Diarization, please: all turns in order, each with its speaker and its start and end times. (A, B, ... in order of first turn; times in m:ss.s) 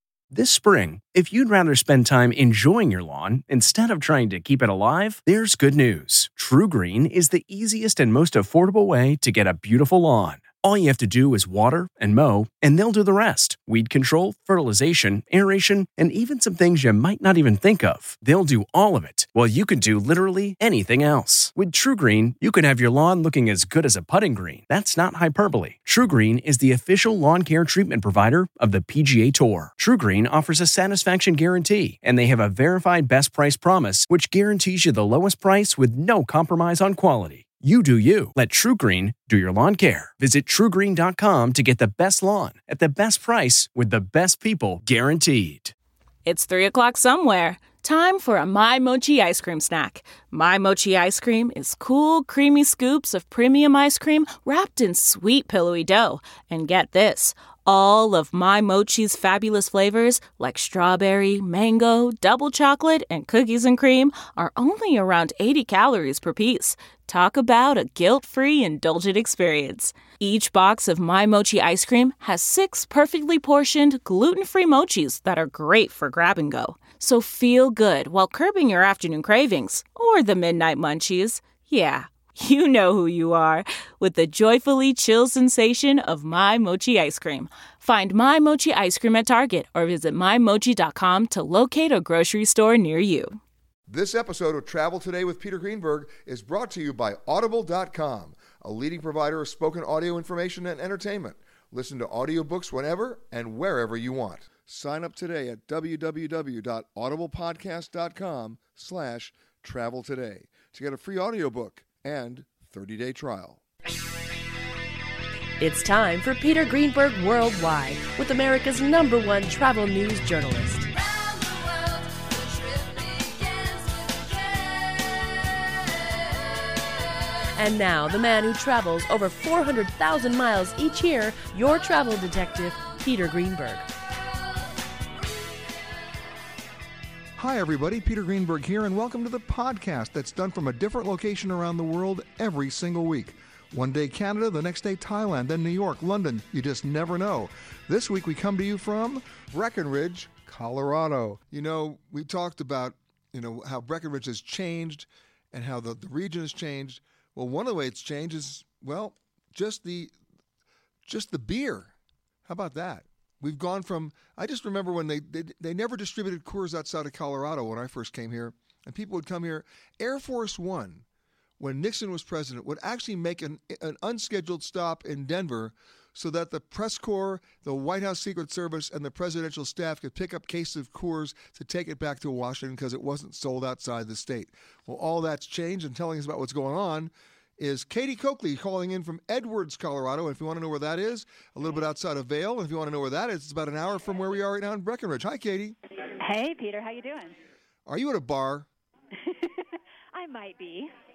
0:00.3-0:45.7 A
0:46.2-1:33.4 B
1:33.9-1:53.6 C
1:55.6-2:00.9 D
2:01.4-2:04.6 D
2:07.6-2:13.9 D
2:17.4-2:40.1 C
2:41.1-2:41.9 C
2:42.5-2:51.0 C
2:51.6-3:15.8 C
3:16.2-3:17.4 E
3:17.9-3:18.7 C
3:19.2-3:20.9 E